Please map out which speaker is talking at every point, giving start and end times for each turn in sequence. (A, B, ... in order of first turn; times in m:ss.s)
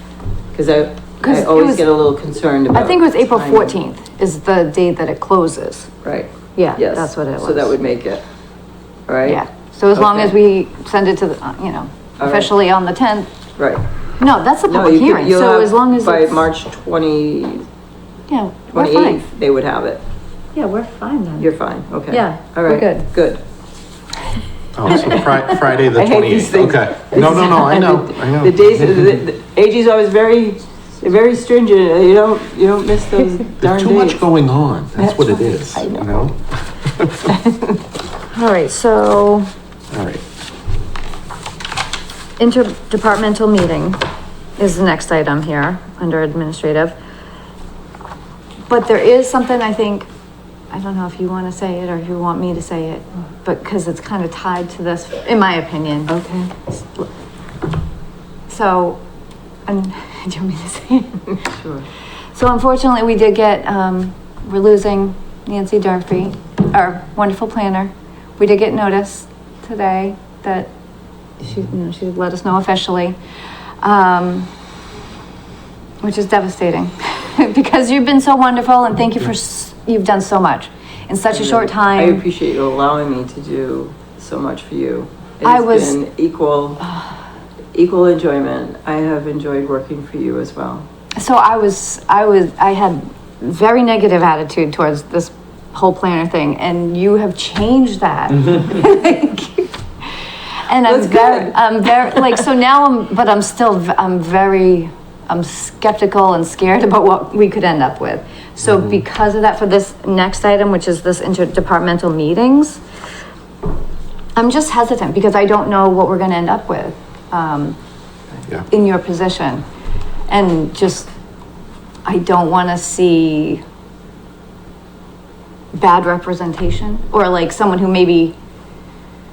0:00.5-0:03.8 A
0:01.2-0:01.9 B
0:02.7-0:05.9 B
0:06.0-0:08.2 A
0:06.6-0:07.8 B
0:09.1-0:09.4 A
0:09.2-0:13.3 B
0:09.9-0:10.4 A
0:12.2-0:12.5 A
0:13.6-0:13.8 A
0:14.2-0:16.4 B
0:14.7-0:17.7 A
0:18.3-0:19.2 B
0:18.7-0:20.0 A
0:20.6-0:21.5 B
0:21.4-0:23.4 A
0:22.1-0:23.1 B
0:24.8-0:29.1 C
0:24.9-0:25.3 A
0:24.9-0:25.3 B
0:25.9-0:34.2 A
0:33.6-0:37.2 C
0:35.0-0:36.3 A
0:37.2-0:37.8 A
0:38.3-0:39.5 B
0:39.9-0:40.2 C
0:42.4-0:44.0 B
0:44.6-0:46.9 B
0:48.7-0:50.1 B
0:50.7-0:56.2 B
0:56.1-0:56.5 A
0:58.5-0:59.0 B
0:59.7-1:01.4 B
1:01.3-1:01.9 A
1:02.3-1:10.7 B
1:11.4-1:13.2 B
1:13.8-1:14.5 B
1:16.0-1:22.2 B
1:21.3-1:26.9 A
1:25.4-1:26.0 B
1:27.7-1:30.9 A
1:31.2-1:52.8 B
1:40.9-1:41.6 A
1:42.1-1:42.4 A
1:54.4-1:57.8 B
1:58.7-1:59.6 B
2:00.3-2:01.1 B
2:02.0-2:03.6 B
2:05.7-2:08.4 B